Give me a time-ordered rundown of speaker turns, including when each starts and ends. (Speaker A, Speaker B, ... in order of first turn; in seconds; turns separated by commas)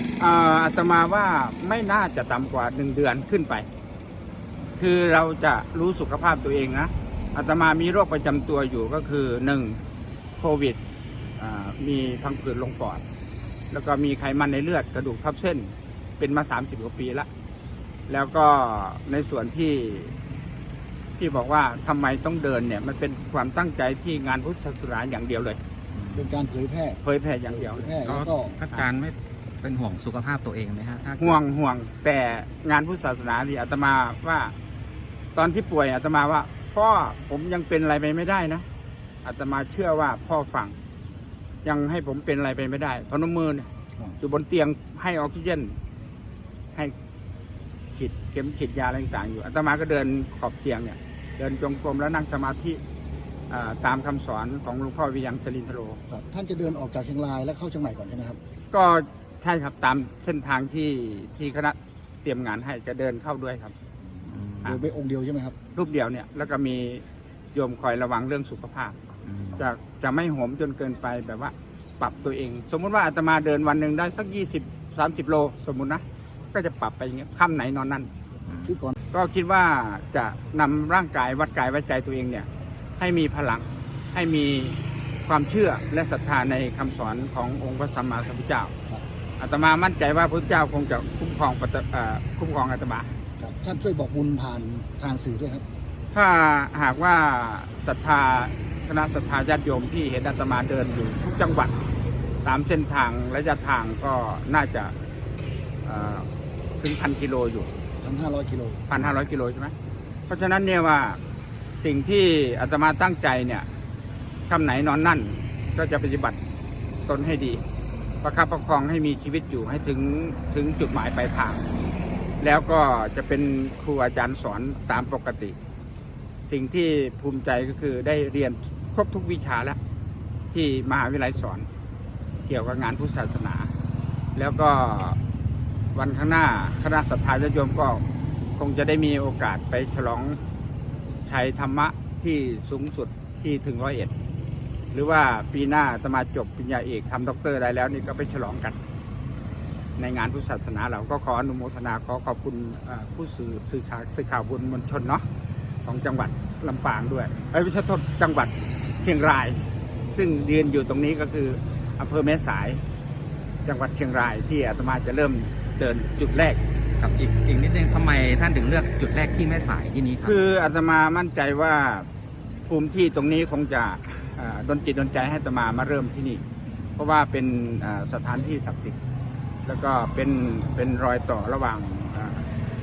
Speaker A: 0.2-3.7, Speaker A: 4.8-9.8, Speaker A: 10.4-10.8, Speaker A: 11.4-13.0, Speaker A: 13.7-17.3, Speaker A: 18.1-20.1, Speaker A: 21.2-25.6, Speaker B: 25.9-26.5, Speaker C: 26.1-27.0, Speaker A: 27.0-28.9, Speaker C: 27.5-28.5, Speaker B: 28.1-31.4, Speaker A: 31.2-34.5, Speaker A: 35.4-38.6, Speaker A: 39.2-40.8, Speaker A: 41.6-43.7, Speaker A: 44.2-45.8, Speaker A: 47.9-52.8, Speaker A: 53.5-56.0, Speaker C: 56.1-58.4, Speaker A: 58.7-63.7, Speaker C: 64.2-65.5, Speaker B: 64.3-64.7, Speaker A: 65.7-69.0, Speaker B: 69.2-69.6, Speaker A: 69.5-78.1, Speaker B: 78.5-78.8, Speaker C: 78.6-78.9, Speaker A: 79.1-82.5, Speaker A: 83.0-88.7, Speaker A: 89.4-93.1, Speaker C: 93.4-95.6, Speaker A: 96.1-101.9, Speaker A: 102.4-104.9, Speaker A: 105.8-106.3, Speaker A: 106.8-107.7, Speaker C: 108.0-108.8, Speaker A: 108.9-109.7, Speaker A: 110.3-111.2, Speaker A: 111.8-113.7, Speaker A: 114.5-116.4, Speaker A: 117.1-117.6, Speaker A: 118.2-121.6, Speaker A: 122.4-125.5, Speaker A: 126.4-129.8, Speaker A: 130.5-131.7, Speaker A: 132.5-133.7, Speaker A: 134.3-135.2, Speaker A: 135.9-138.0, Speaker A: 138.6-140.4, Speaker A: 141.2-144.1, Speaker A: 144.9-148.8, Speaker A: 150.0-155.2, Speaker A: 155.8-162.8, Speaker A: 163.6-166.6, Speaker B: 167.0-170.4, Speaker A: 170.2-172.1, Speaker A: 172.7-176.4, Speaker A: 177.0-179.0, Speaker A: 179.7-182.5